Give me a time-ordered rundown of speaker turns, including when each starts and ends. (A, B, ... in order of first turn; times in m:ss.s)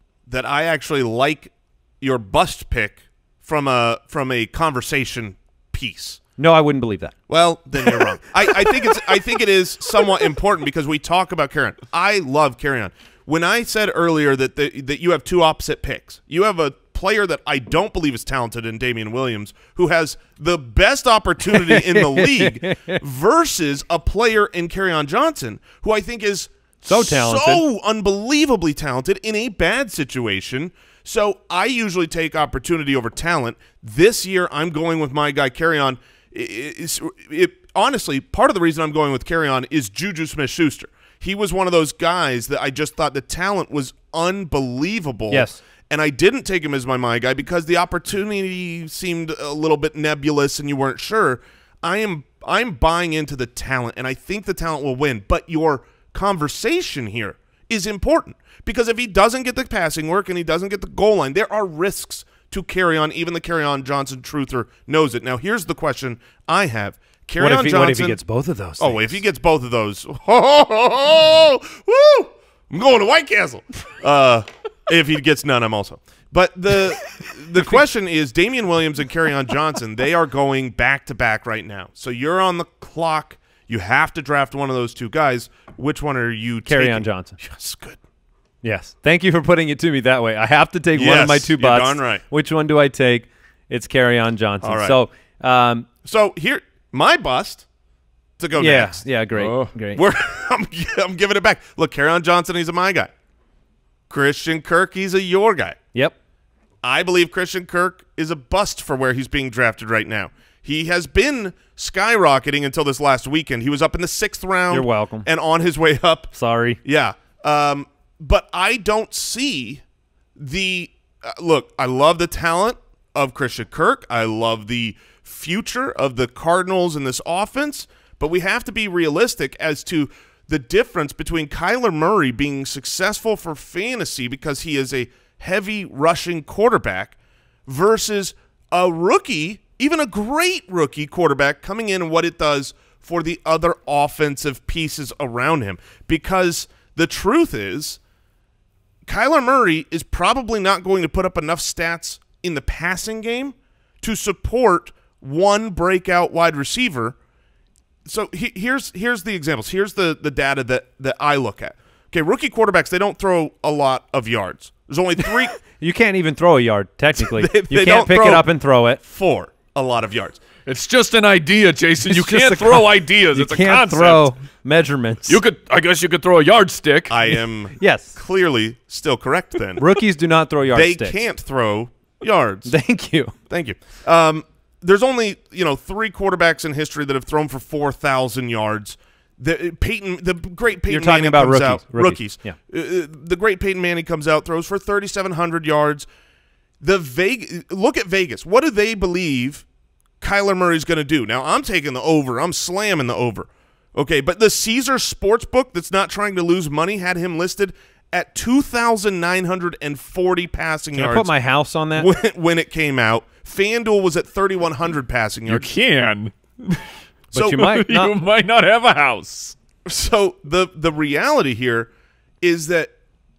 0:00.3-0:06.2 A
0:06.4-0:07.1 B
0:07.3-1:08.2 A
0:21.5-0:23.0 B
0:26.8-0:27.6 B
0:45.3-0:45.6 B
1:07.4-1:09.2 B
1:08.8-1:28.0 A
1:26.6-1:27.4 B
1:28.6-1:35.9 B
1:30.9-1:32.2 A
1:34.6-1:35.0 A
1:36.0-1:37.6 A
1:38.4-1:39.0 A
1:38.6-1:40.0 B
1:39.4-1:39.7 C
1:39.9-1:43.1 A
1:44.1-1:45.8 A
1:46.8-1:56.3 A
1:54.7-1:55.3 B
1:56.3-1:56.8 B
1:56.8-1:59.8 A
2:00.4-2:28.0 A
2:29.1-2:37.2 A
2:38.0-2:45.6 A
2:45.6-2:49.0 B
2:47.2-2:48.5 A
2:49.0-2:50.4 A
2:50.6-2:54.3 C
2:52.0-2:55.4 B
2:55.3-2:57.3 C
2:57.1-2:59.8 A
2:57.8-2:58.2 B
2:59.8-3:01.2 B
3:00.7-3:02.7 A
3:02.6-3:03.3 B
3:03.5-3:16.1 A
3:10.9-3:12.6 B
3:16.8-3:19.6 A
3:20.2-3:31.3 A
3:30.9-3:32.1 B
3:32.0-3:35.7 A
3:35.5-3:39.6 C
3:37.3-3:38.1 B
3:39.8-3:41.9 A
3:42.4-3:42.9 A